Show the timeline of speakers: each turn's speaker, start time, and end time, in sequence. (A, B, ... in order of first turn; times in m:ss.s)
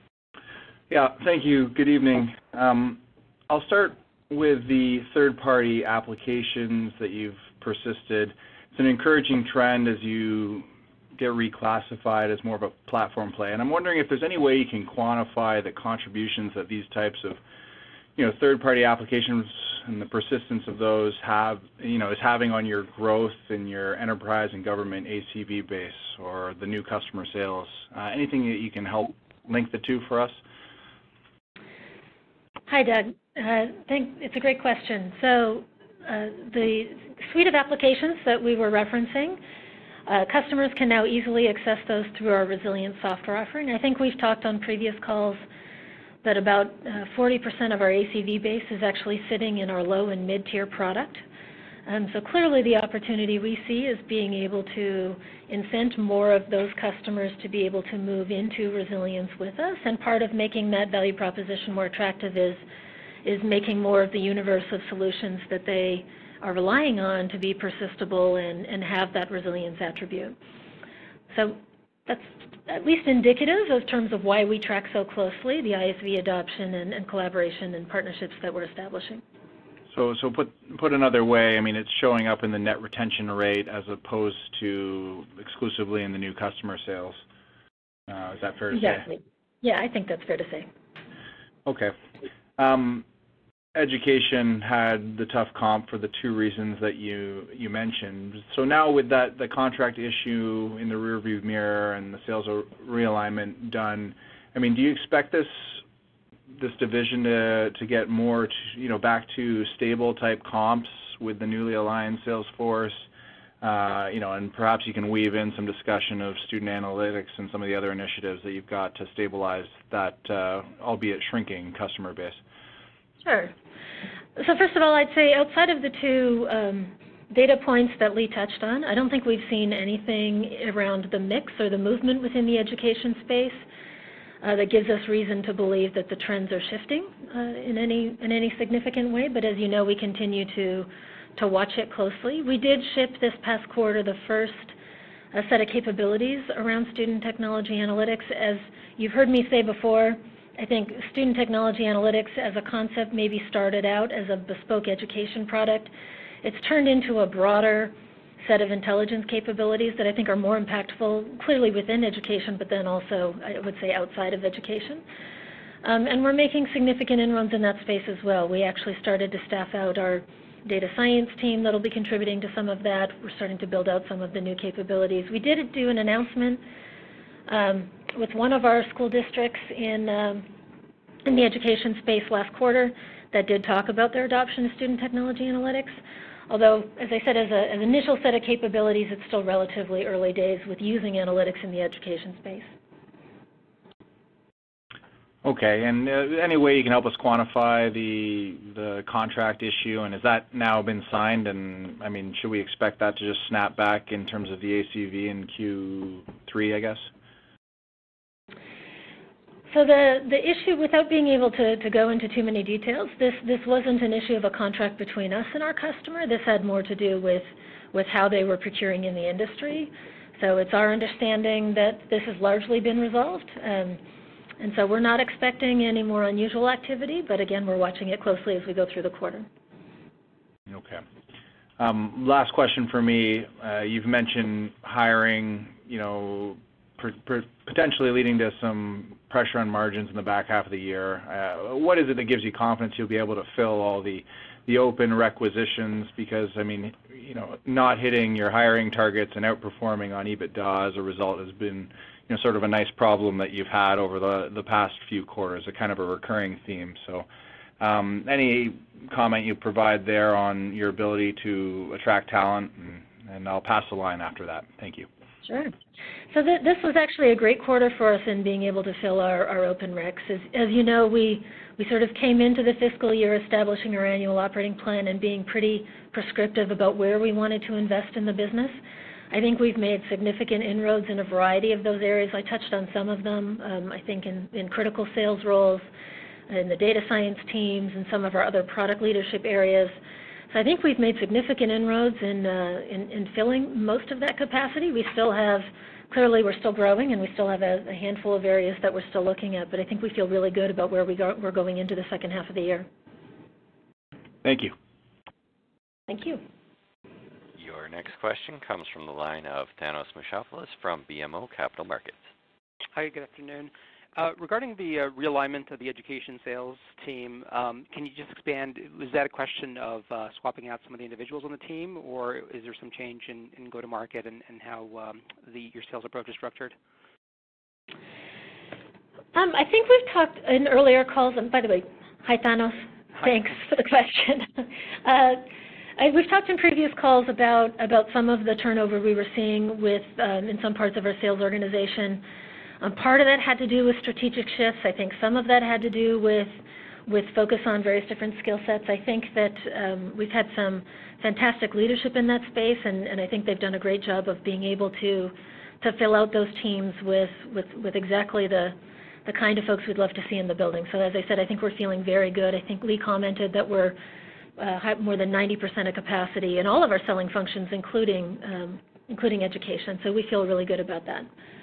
0:00.9-0:17.4 A
0:18.2-0:30.4 A
0:32.7-0:39.4 B
0:40.1-0:45.4 B
0:46.2-0:51.2 B
0:51.9-1:02.6 B
1:03.2-1:10.4 B
1:11.3-1:19.2 B
1:19.9-1:27.2 A
1:28.1-1:29.1 A
1:28.7-1:30.7 B
1:31.6-1:31.9 A
1:32.6-1:33.1 A
1:33.8-1:45.8 A
1:46.5-1:53.1 A
1:53.6-2:02.4 A
2:03.2-2:03.5 B
2:04.4-2:13.6 B
2:14.4-2:24.8 B
2:25.3-2:35.9 B
2:36.4-2:45.0 B
2:45.8-2:56.6 B
2:57.5-3:00.5 B
3:01.2-3:06.0 B
3:06.5-3:12.7 B
3:15.4-3:27.1 A
3:29.7-3:44.0 B
3:44.6-3:49.5 B
3:50.7-3:51.0 A
3:51.8-4:17.3 A
4:17.8-4:25.1 A
4:25.4-4:25.7 B
4:26.3-4:38.8 B
4:39.3-4:45.9 B
4:46.5-4:50.0 B
4:50.5-5:02.9 B
5:04.4-5:04.8 A
5:06.1-5:06.4 B
5:07.6-5:12.2 C
5:12.9-5:26.8 D
5:29.3-5:35.4 B
5:36.0-5:42.2 B
5:42.8-5:46.5 B
5:47.1-6:04.0 B
6:04.6-6:11.3 B